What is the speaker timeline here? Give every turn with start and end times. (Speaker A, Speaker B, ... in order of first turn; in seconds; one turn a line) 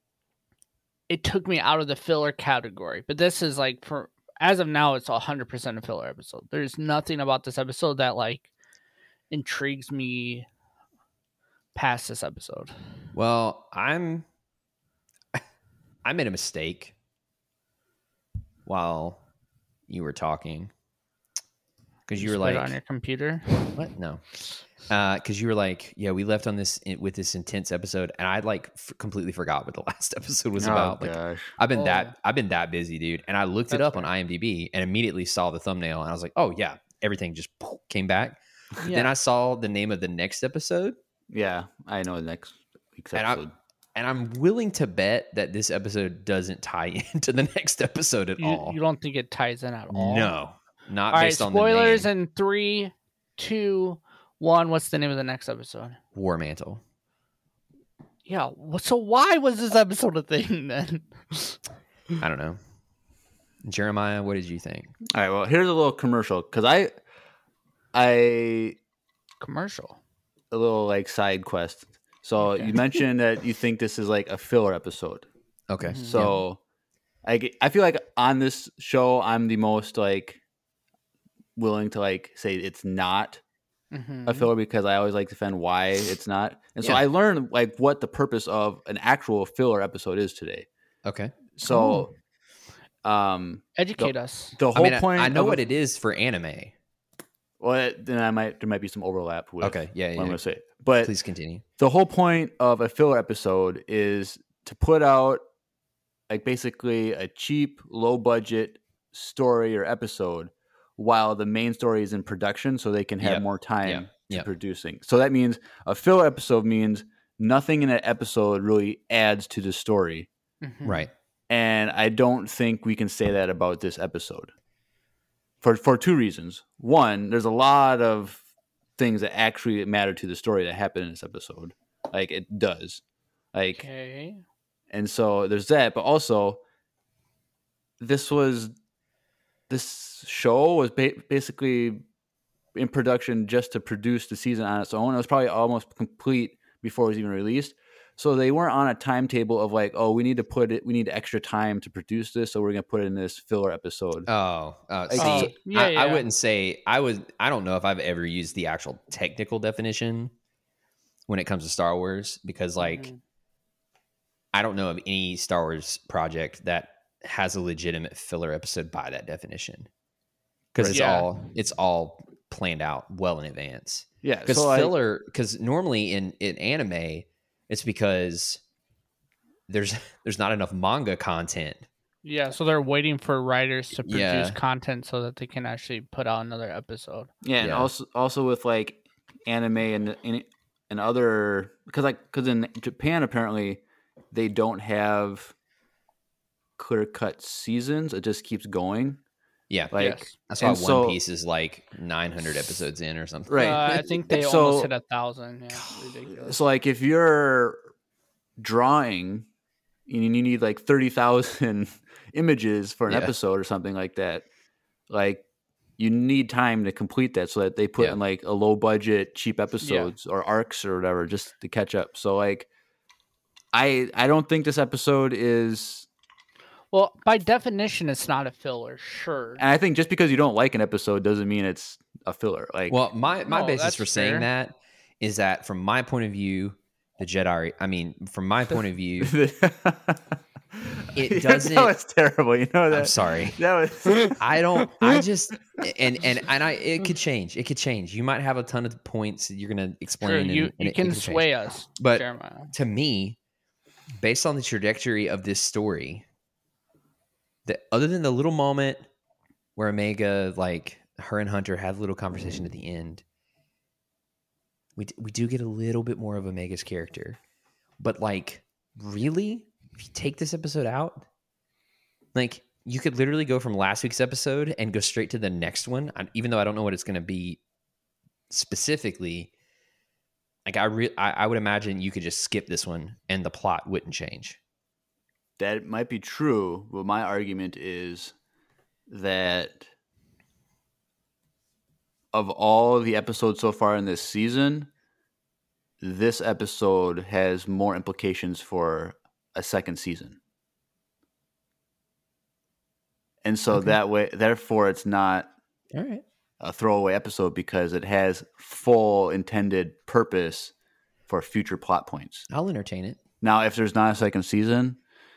Speaker A: 1.1-8.5
Speaker A: 9.3-10.5
Speaker A: 11.7-12.7
Speaker B: 13.1-14.2
Speaker B: 16.0-16.9
Speaker B: 18.6-19.2
Speaker B: 19.9-20.7
Speaker B: 22.1-22.8
Speaker A: 22.2-23.7
Speaker B: 23.7-24.2
Speaker B: 24.9-41.0
Speaker C: 30.6-31.5
Speaker A: 31.7-32.1
Speaker A: 33.7-34.1
Speaker A: 38.8-39.1
Speaker C: 41.3-43.5
Speaker B: 43.1-43.4
Speaker B: 43.9-48.8
Speaker A: 48.4-50.3
Speaker B: 49.9-52.1
Speaker A: 51.1-56.0
Speaker B: 56.1-56.8
Speaker A: 58.2-61.6
Speaker B: 62.2-62.6
Speaker B: 63.6-64.9
Speaker C: 65.1-66.9
Speaker C: 67.9-68.8
Speaker A: 69.4-70.0
Speaker C: 70.5-75.3
Speaker A: 72.4-72.7
Speaker B: 75.7-76.4
Speaker A: 75.8-76.3
Speaker C: 76.0-76.6
Speaker C: 77.2-80.4
Speaker C: 81.5-83.4
Speaker A: 83.9-84.5
Speaker C: 84.2-90.7
Speaker B: 91.0-91.6
Speaker C: 91.6-92.1
Speaker A: 91.7-92.1
Speaker C: 93.0-95.6
Speaker A: 93.8-94.6
Speaker B: 94.7-96.7
Speaker C: 97.6-101.1
Speaker B: 99.6-100.4
Speaker B: 101.0-101.6
Speaker C: 101.8-105.4
Speaker C: 106.3-120.3
Speaker B: 113.2-114.5
Speaker A: 120.6-121.1
Speaker B: 120.8-121.1
Speaker C: 121.5-124.5
Speaker C: 125.6-128.4
Speaker C: 129.0-133.0
Speaker C: 133.5-133.8
Speaker A: 133.7-134.4
Speaker C: 134.9-136.6
Speaker C: 138.0-138.7
Speaker C: 139.7-142.0
Speaker C: 142.7-154.3
Speaker B: 154.3-160.3
Speaker C: 155.1-155.5
Speaker A: 155.2-156.3
Speaker B: 161.3-163.1
Speaker A: 162.8-163.2
Speaker B: 164.5-169.9
Speaker B: 170.7-178.6
Speaker A: 170.8-171.3
Speaker C: 174.2-174.9
Speaker B: 179.7-181.9
Speaker A: 182.2-187.3
Speaker B: 184.0-184.6
Speaker C: 187.4-195.5
Speaker B: 187.6-187.9
Speaker C: 196.8-199.2
Speaker B: 199.7-204.1
Speaker C: 199.9-201.2
Speaker A: 199.9-200.3
Speaker C: 203.5-204.9
Speaker A: 203.6-206.6
Speaker C: 206.4-207.8
Speaker C: 208.6-209.5
Speaker C: 210.1-214.4
Speaker B: 213.1-213.3
Speaker C: 215.1-215.4
Speaker C: 216.0-222.7
Speaker A: 219.8-220.1
Speaker C: 223.7-226.1
Speaker A: 226.9-229.6
Speaker C: 229.6-232.9
Speaker B: 232.9-239.3
Speaker A: 233.5-234.5
Speaker C: 239.2-245.2
Speaker B: 241.1-241.9
Speaker B: 242.9-243.6
Speaker B: 244.2-253.4
Speaker A: 250.2-252.7
Speaker B: 254.2-256.2
Speaker B: 257.6-259.0
Speaker B: 259.8-263.2
Speaker B: 264.9-267.4
Speaker B: 268.0-271.2
Speaker B: 272.3-277.6
Speaker B: 278.5-279.5
Speaker B: 280.6-284.6
Speaker C: 285.6-288.3
Speaker C: 289.1-289.9
Speaker C: 292.3-294.9
Speaker C: 296.0-300.4
Speaker C: 303.4-305.5
Speaker B: 305.9-306.2
Speaker C: 306.6-310.7
Speaker C: 311.3-312.4
Speaker B: 312.5-313.2
Speaker C: 313.4-315.0